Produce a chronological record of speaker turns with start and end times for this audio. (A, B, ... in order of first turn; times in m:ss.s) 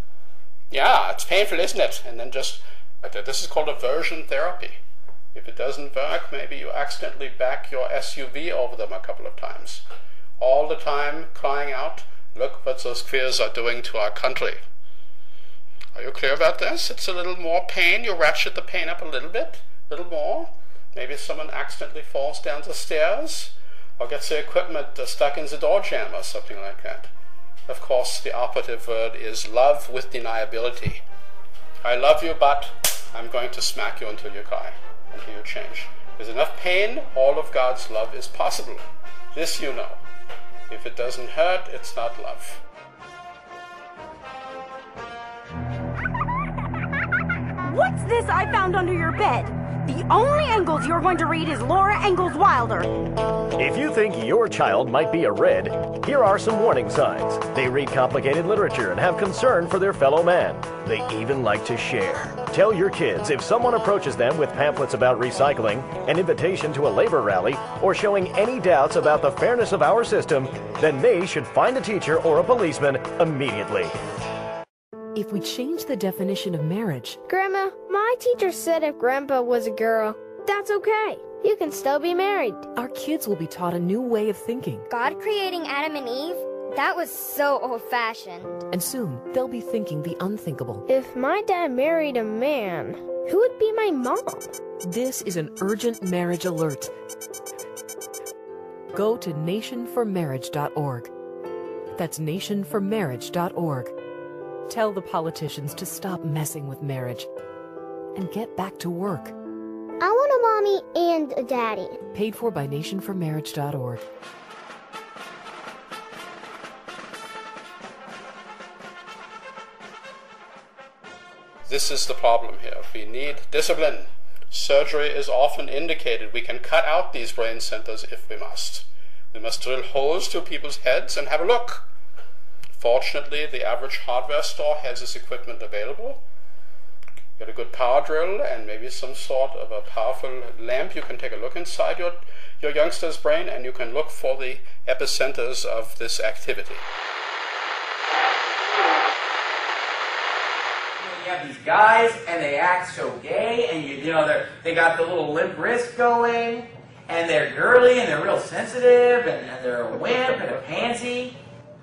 0:00.7-0:04.8 A
0:05.3-0:09.8 A
0:10.4-0:14.6 A
0:15.9-0:27.1 A
0:27.7-0:31.0 A
0:31.8-0:40.0 A
0:40.7-0:42.6 A
0:47.6-0:52.9 B
0:53.6-1:13.9 C
1:15.1-1:17.2 D
1:17.3-1:22.7 E
1:22.7-1:24.9 D
1:24.9-1:28.6 E
1:28.7-1:30.8 D
1:30.9-1:34.6 E
1:34.8-1:36.9 D
1:38.9-1:41.1 D
1:42.0-1:43.9 D
1:44.7-1:47.3 D
1:48.1-1:49.3 D
1:50.0-1:52.0 E
1:52.1-1:54.0 D
2:01.7-2:11.8 A
2:12.7-2:16.2 A
2:17.4-2:26.8 A
2:31.0-2:41.4 F